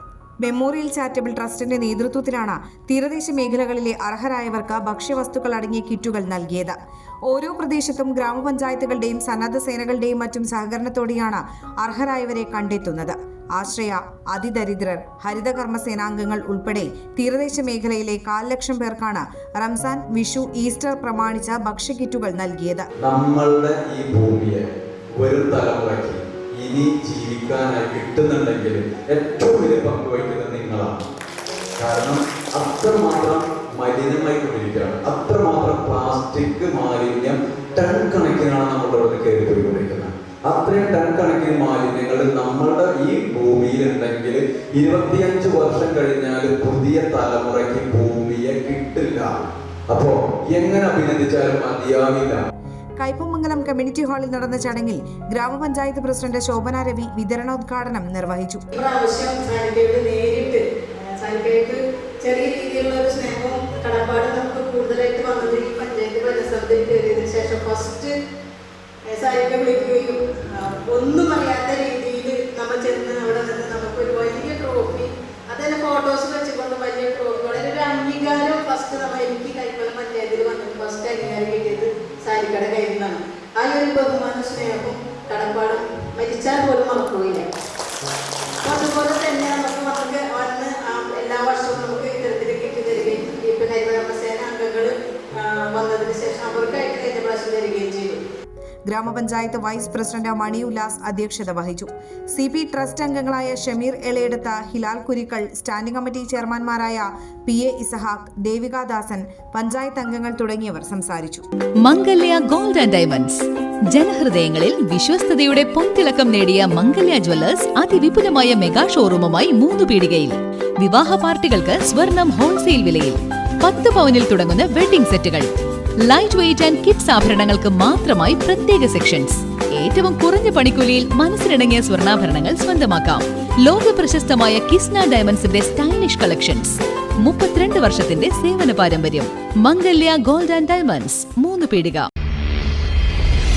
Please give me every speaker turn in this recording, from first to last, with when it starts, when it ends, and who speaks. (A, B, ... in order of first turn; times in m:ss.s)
0:00.4-0:06.8 A
0:07.3-0:22.9 A
0:23.0-0:24.6 B
0:25.2-0:31.0 B
0:31.8-0:49.3 B
0:49.9-0:52.4 B
0:53.0-0:58.6 A
0:58.7-1:00.6 C
1:01.2-1:08.1 C
1:09.1-1:27.5 C
1:28.6-1:38.2 C
1:38.9-1:51.4 A
1:51.8-2:05.5 D
2:06.0-2:22.1 D